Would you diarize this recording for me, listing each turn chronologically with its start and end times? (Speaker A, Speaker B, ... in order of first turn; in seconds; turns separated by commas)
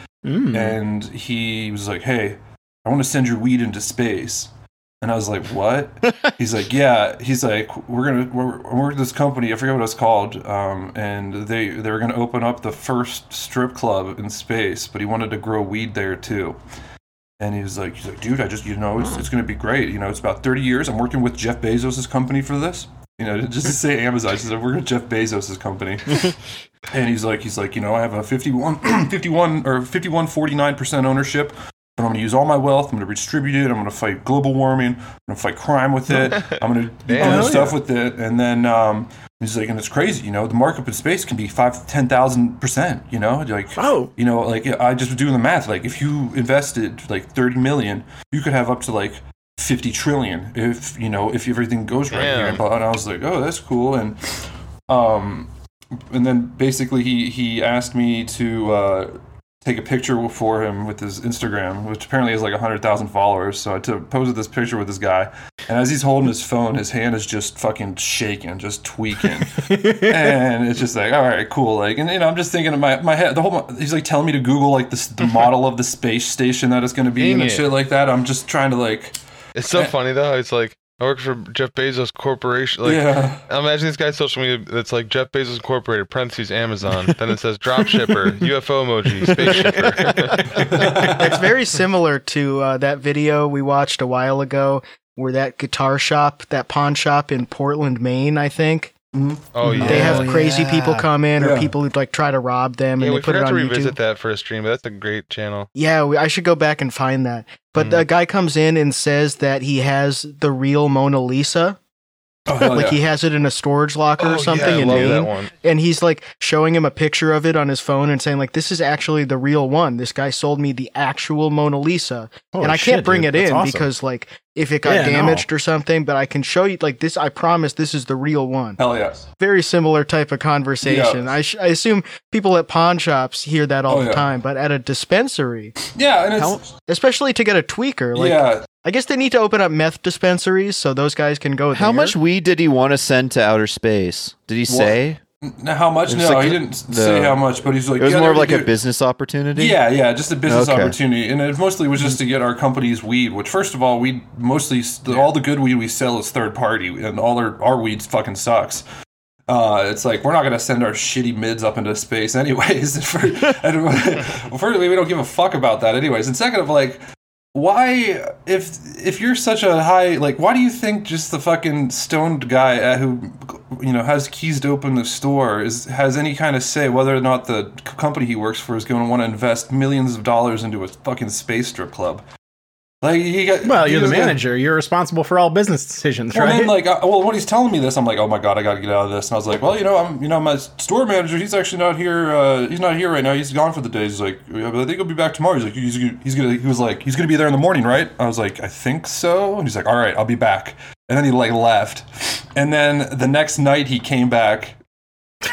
Speaker A: 0.2-0.8, Speaker B: 0.5-4.5, Speaker B: 5.0-16.6, Speaker B: 17.4-26.3, Speaker B: 26.9-54.2, Speaker C: 36.2-36.5, Speaker C: 37.1-37.7, Speaker A: 37.2-37.7, Speaker A: 43.8-44.1, Speaker C: 52.1-52.6, Speaker B: 54.9-55.5, Speaker B: 56.1-79.2, Speaker A: 69.3-70.3, Speaker C: 77.2-77.7, Speaker C: 79.5-90.7, Speaker B: 82.8-83.4, Speaker D: 89.2-89.8, Speaker B: 90.5-91.4, Speaker E: 90.9-98.9, Speaker B: 99.1-100.3, Speaker C: 99.5-100.4, Speaker A: 99.7-100.2, Speaker E: 99.8-104.0, Speaker B: 101.4-101.7, Speaker C: 103.0-105.7, Speaker E: 105.7-111.8, Speaker B: 112.5-113.0, Speaker E: 112.6-128.8, Speaker C: 114.2-115.5, Speaker A: 122.5-123.9, Speaker A: 124.8-125.5, Speaker B: 128.8-129.3, Speaker E: 129.4-135.7, Speaker B: 130.8-131.3, Speaker B: 133.9-134.3, Speaker B: 135.9-136.7, Speaker E: 136.9-142.2, Speaker B: 138.1-138.6, Speaker D: 141.7-145.2, Speaker B: 145.5-148.7, Speaker D: 146.1-147.4, Speaker D: 147.9-149.8, Speaker B: 149.6-158.8, Speaker D: 150.4-150.9, Speaker B: 159.5-167.0, Speaker B: 167.5-182.2, Speaker B: 183.0-184.4, Speaker A: 183.6-186.7, Speaker B: 186.3-204.8